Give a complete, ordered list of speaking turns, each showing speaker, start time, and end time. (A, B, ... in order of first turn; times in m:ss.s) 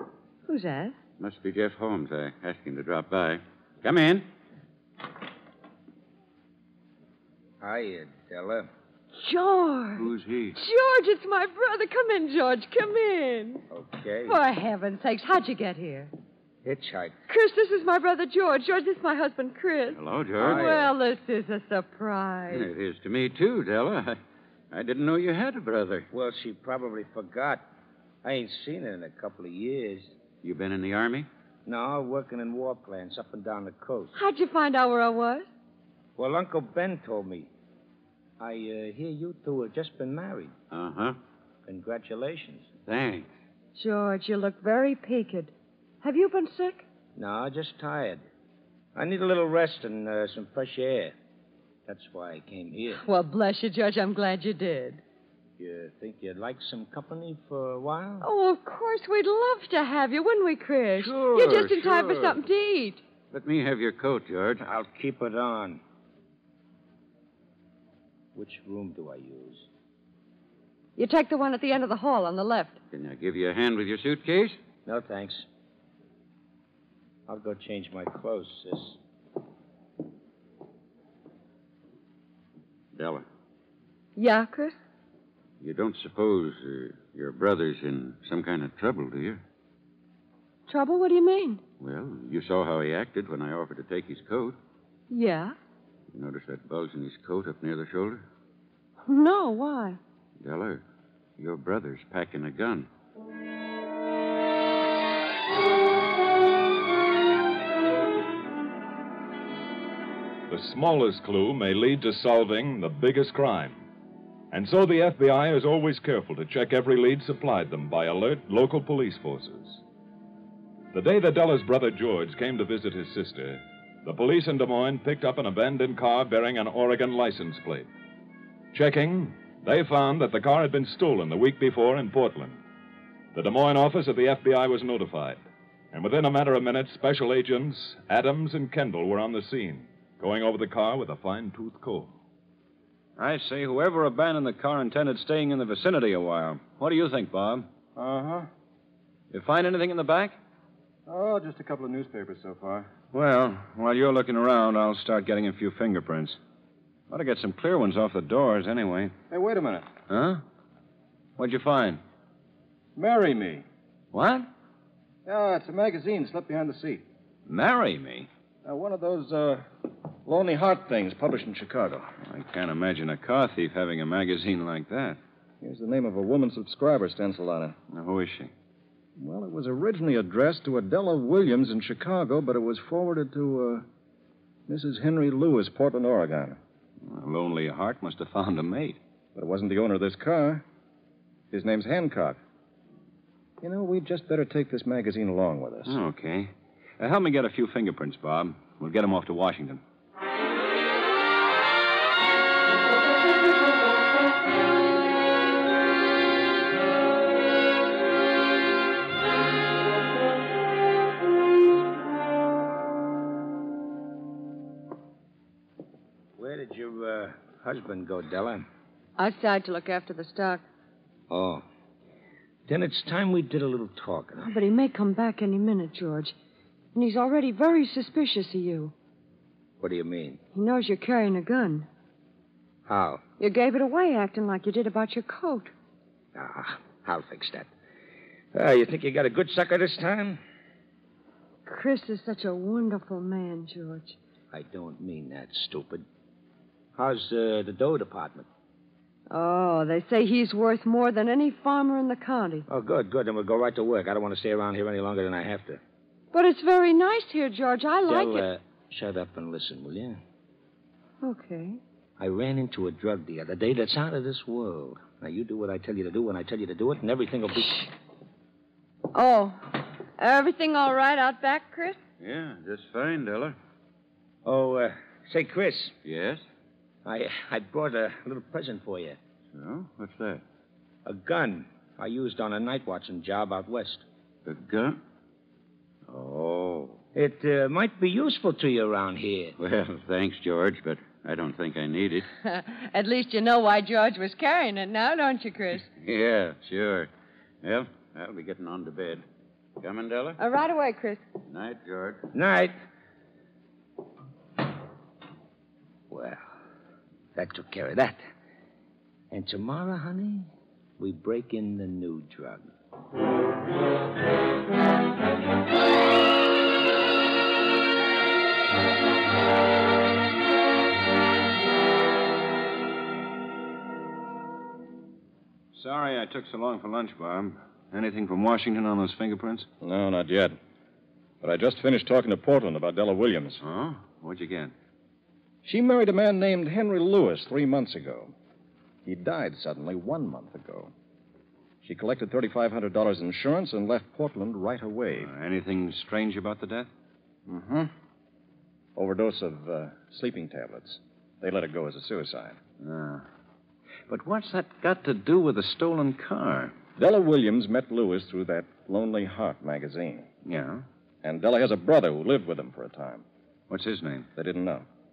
0:00.5-0:00.9 A
0:01.2-0:04.2 B
0:07.6-0:08.7 C
0:09.2-0:13.6 A
0:10.0-0:10.6 B
0:13.7-0:14.4 C
0:14.2-0:16.1 A
0:16.6-0:17.2 C
0:17.3-0:22.7 A
0:19.9-0:20.8 B
0:20.4-0:20.9 C
0:22.5-0:24.2 B
0:24.7-0:26.1 B
0:26.1-0:27.6 C
0:28.2-0:30.0 C
0:30.4-0:31.3 B
0:31.7-0:34.2 C
0:34.2-0:35.5 A
0:36.2-0:37.5 C
0:38.4-0:40.5 C
0:40.7-0:41.2 B
0:41.7-0:42.7 C
0:42.9-0:43.3 B
0:43.7-0:46.8 A
0:47.2-0:48.2 C
0:49.0-0:51.1 C
0:51.9-0:53.0 C
0:53.0-0:55.0 A
0:55.6-0:58.3 C
0:58.2-1:03.0 A
1:01.0-1:02.3 C
1:03.3-1:04.6 B
1:04.6-1:05.8 C
1:08.3-1:09.7 C
1:11.0-1:12.8 A
1:12.9-1:14.6 B
1:14.8-1:15.4 C
1:17.3-1:19.0 C
1:23.0-1:23.2 B
1:24.2-1:24.8 A
1:25.6-1:29.4 B
1:30.7-1:31.6 A
1:31.8-1:34.6 B
1:35.1-1:35.6 A
1:36.1-1:38.2 B
1:39.0-1:40.0 A
1:40.4-1:40.8 B
1:41.4-1:42.9 B
1:50.5-1:53.8 D
1:54.5-1:59.8 D
2:00.9-2:07.9 D
2:08.7-2:12.6 D
2:13.3-2:15.4 D
2:15.9-2:22.1 D
2:23.2-2:27.7 E
2:28.0-2:28.5 F
2:29.3-2:30.3 E
2:31.0-2:32.9 F
2:33.1-2:36.4 E
2:37.1-2:39.1 E
2:39.3-2:39.9 F
2:40.1-2:40.4 E
2:41.4-2:42.0 E
2:43.0-2:43.6 F
2:44.1-2:44.5 E
2:45.3-2:47.0 F
2:47.5-2:48.3 E
2:48.6-2:49.7 F
2:50.2-2:52.1 F
2:52.2-2:55.2 E
2:55.6-2:57.8 F
2:57.9-2:58.5 E
2:59.2-3:03.8 F
3:04.7-3:06.6 F
3:07.0-3:09.0 E
3:09.3-3:10.6 F
3:11.5-3:12.4 F
3:13.6-3:16.0 F
3:15.8-3:19.8 E
3:36.4-3:38.6 C
3:39.2-3:40.6 A
3:41.3-3:41.6 C
3:42.7-3:44.5 C
3:44.4-3:46.3 A
3:47.0-3:48.9 A
3:49.8-3:50.4 C
3:50.5-3:51.9 A
3:52.9-3:53.2 C
3:53.4-3:55.7 A
3:56.3-3:57.7 C
3:58.5-4:00.4 C
4:01.7-4:04.2 A
4:04.5-4:06.0 C
4:07.0-4:08.5 C
4:09.3-4:12.7 A
4:12.7-4:15.8 C
4:16.3-4:18.5 A
4:18.0-4:20.2 C
4:21.2-4:21.8 A
4:22.2-4:27.9 C
4:29.1-4:32.0 A
4:32.2-4:33.6 B
4:34.4-4:36.0 C
4:36.0-4:36.4 B
4:37.0-4:39.2 C
4:39.5-4:40.4 B
4:41.0-4:44.0 C
4:44.4-4:45.0 B
4:46.1-4:47.0 B
4:47.1-4:49.6 C
4:49.6-4:52.3 B
4:52.4-4:55.9 A
4:56.0-4:57.1 B
4:57.6-4:59.2 B
4:59.8-5:00.4 B
5:00.4-5:01.2 A
5:01.5-5:02.3 B
5:02.3-5:02.7 C
5:06.1-5:06.4 C
5:07.4-5:08.2 C
5:09.3-5:12.7 C
5:25.7-5:29.7 E
5:29.8-5:30.6 F
5:31.4-5:33.6 F
5:33.6-5:34.7 E
5:35.6-5:38.3 F
5:39.0-5:40.9 F
5:41.8-5:45.3 F
5:45.2-5:46.9 E
5:47.5-5:47.8 F
5:49.0-5:52.6 F
5:52.8-5:53.2 E
5:54.1-5:56.7 E
5:57.0-6:00.3 F
6:00.4-6:00.9 E
6:01.2-6:03.2 F
6:03.7-6:04.3 E
6:04.4-6:04.9 F